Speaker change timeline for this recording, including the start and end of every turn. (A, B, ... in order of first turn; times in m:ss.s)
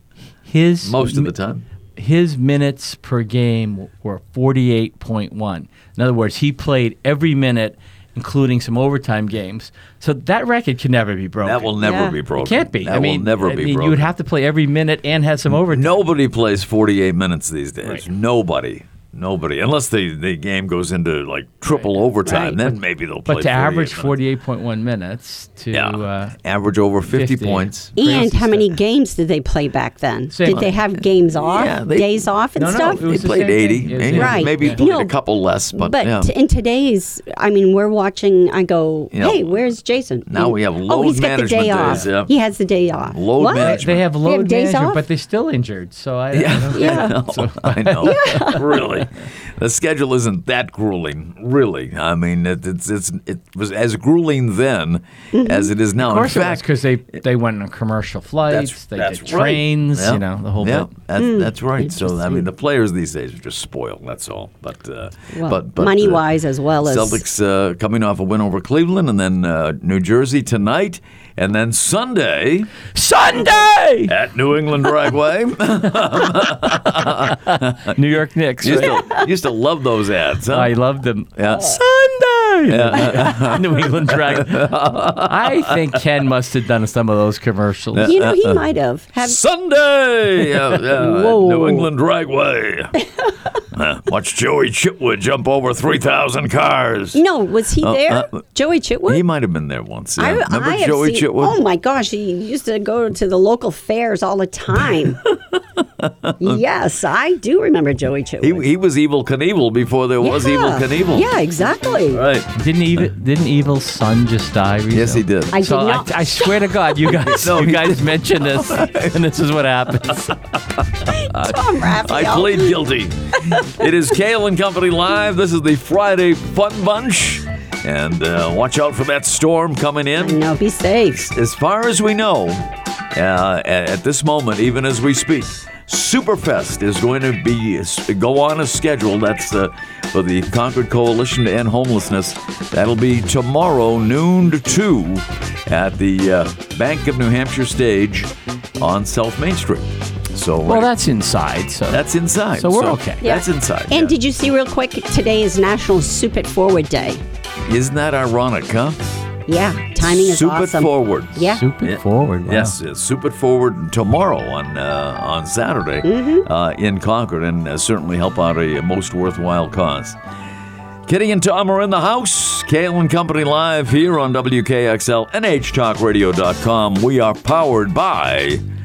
0:00.4-0:01.3 A
0:00.8-0:01.6 B
0:02.0-0:11.8 A
0:11.4-0:14.1 B
0:11.8-0:12.2 C
0:12.3-0:16.0 A
0:15.7-0:24.2 B
0:22.3-0:22.6 C
0:23.3-0:26.4 A
0:25.7-0:28.1 B
0:27.1-0:28.8 A
0:28.0-0:33.2 C
0:30.3-0:30.7 A
0:30.5-0:36.3 B
0:32.6-0:34.8 A
0:34.1-0:35.2 C
0:35.7-0:45.0 C
0:39.1-0:39.6 B
0:40.3-0:42.3 B
0:43.1-0:44.0 B
0:43.6-0:48.6 A
0:46.3-0:56.7 B
0:46.8-0:47.2 C
0:48.0-0:49.0 C
0:55.3-0:55.7 C
0:56.0-1:00.9 A
0:58.5-1:06.2 B
1:01.2-1:02.4 C
1:05.3-1:07.2 C
1:06.8-1:12.7 B
1:12.9-1:14.1 A
1:14.1-1:20.7 B
1:16.0-1:19.0 A
1:20.5-1:28.1 A
1:21.4-1:21.8 B
1:22.7-1:26.0 B
1:27.9-1:28.6 B
1:28.0-1:29.4 C
1:29.2-1:33.0 B
1:30.6-1:31.9 C
1:33.7-1:37.2 B
1:37.2-1:39.2 C
1:37.8-1:38.3 B
1:39.1-1:41.6 B
1:40.2-1:45.2 C
1:45.5-1:46.6 B
1:46.4-1:48.6 C
1:48.4-1:51.3 B
1:50.2-1:52.2 C
1:52.1-1:52.5 B
1:52.6-2:00.4 A
1:54.9-1:55.6 B
1:55.5-1:56.7 C
1:57.2-1:59.2 B
2:00.8-2:10.4 B
2:01.1-2:02.8 C
2:10.2-2:11.3 C
2:11.1-2:30.9 B
2:30.7-2:32.0 A
2:31.9-2:34.2 B
2:32.6-2:33.2 A
2:33.2-2:37.2 C
2:37.6-2:39.0 B
2:39.5-2:41.6 C
2:40.0-2:50.2 B
2:41.4-2:42.8 A
2:46.0-2:46.5 C
2:51.1-2:58.6 B